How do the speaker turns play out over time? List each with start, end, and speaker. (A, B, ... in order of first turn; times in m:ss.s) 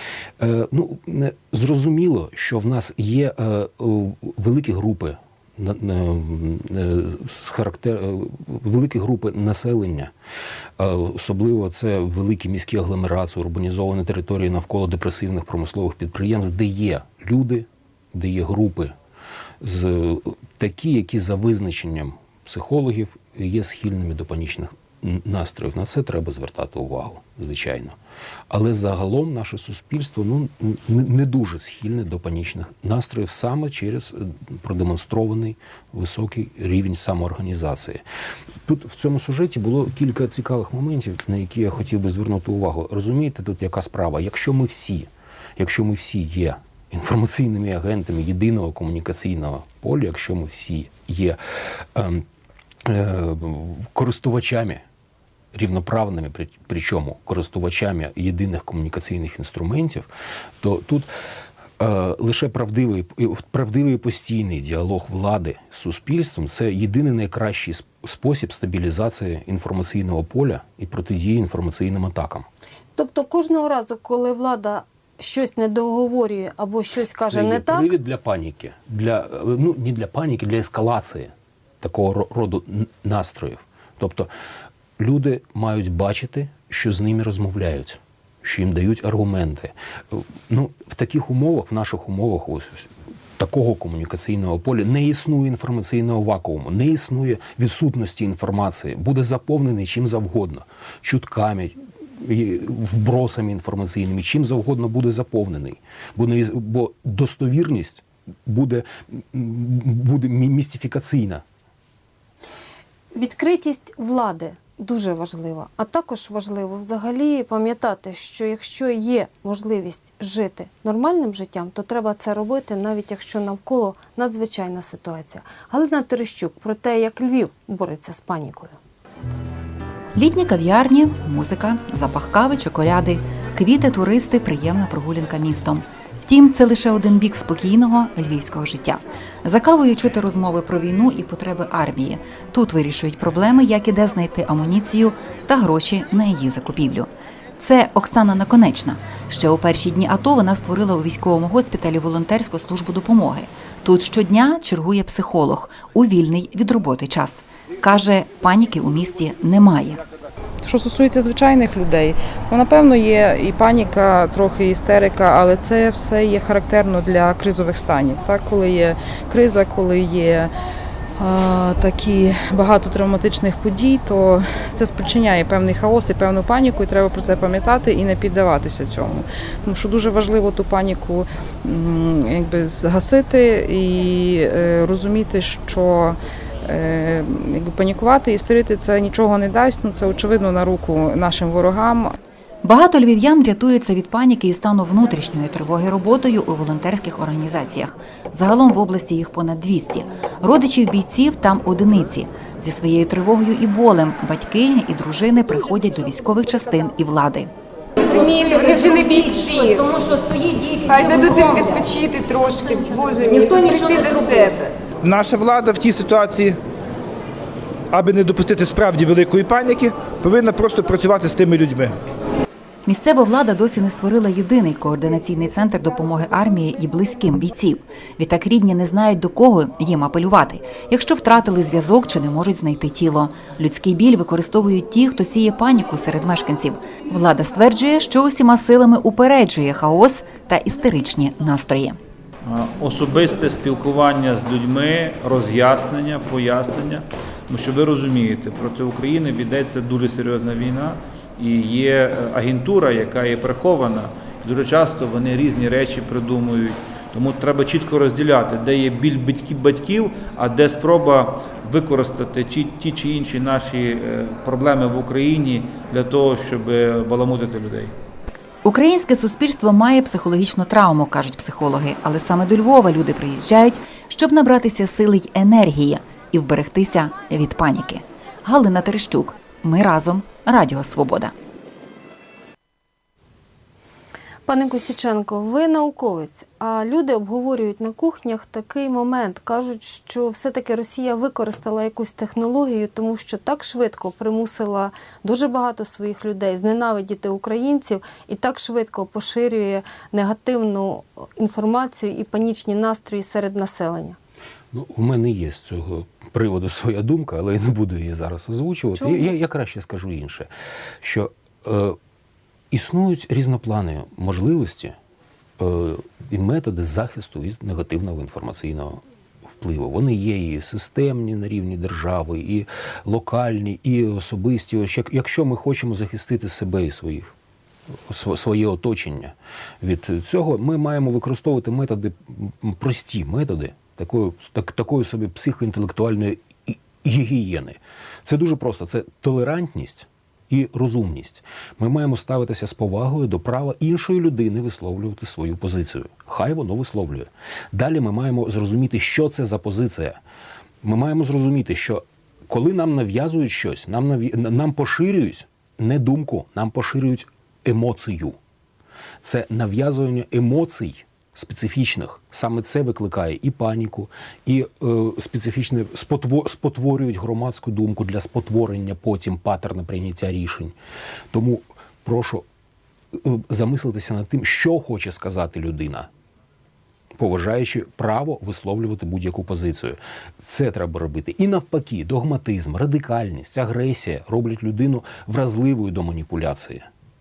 0:00.4-0:10.1 A
0:10.8-0:18.9 A
0:19.6-0:28.0 A
0:28.5-0:38.0 A
0:38.6-0:51.4 A
0:51.9-0:52.2 A
0:52.8-0:54.8 A
0:55.5-1:00.1 A
1:00.6-1:01.1 A
1:01.8-1:12.5 A
1:12.9-1:17.9 B
1:17.2-1:24.3 A
1:25.0-1:51.4 A
1:53.1-2:08.8 B
2:10.1-2:40.0 C
2:40.6-2:50.5 D
2:51.2-3:12.1 D
3:12.6-3:27.5 C
3:28.0-3:29.8 E
3:30.9-3:34.6 E
3:35.0-3:36.6 F
3:37.9-3:41.9 F
3:42.8-4:02.0 C
4:02.4-4:27.9 G
4:28.6-4:41.3 C
4:44.4-5:04.2 B
5:04.7-5:10.5 A
5:09.0-5:09.3 B
5:11.0-5:12.0 A
5:12.7-5:15.0 A
5:15.6-5:27.3 A
5:28.1-5:50.2 A
5:50.8-5:58.4 A
5:59.2-6:10.8 A
6:11.3-6:12.4 A
6:13.1-6:16.1 A
6:17.1-6:26.9 A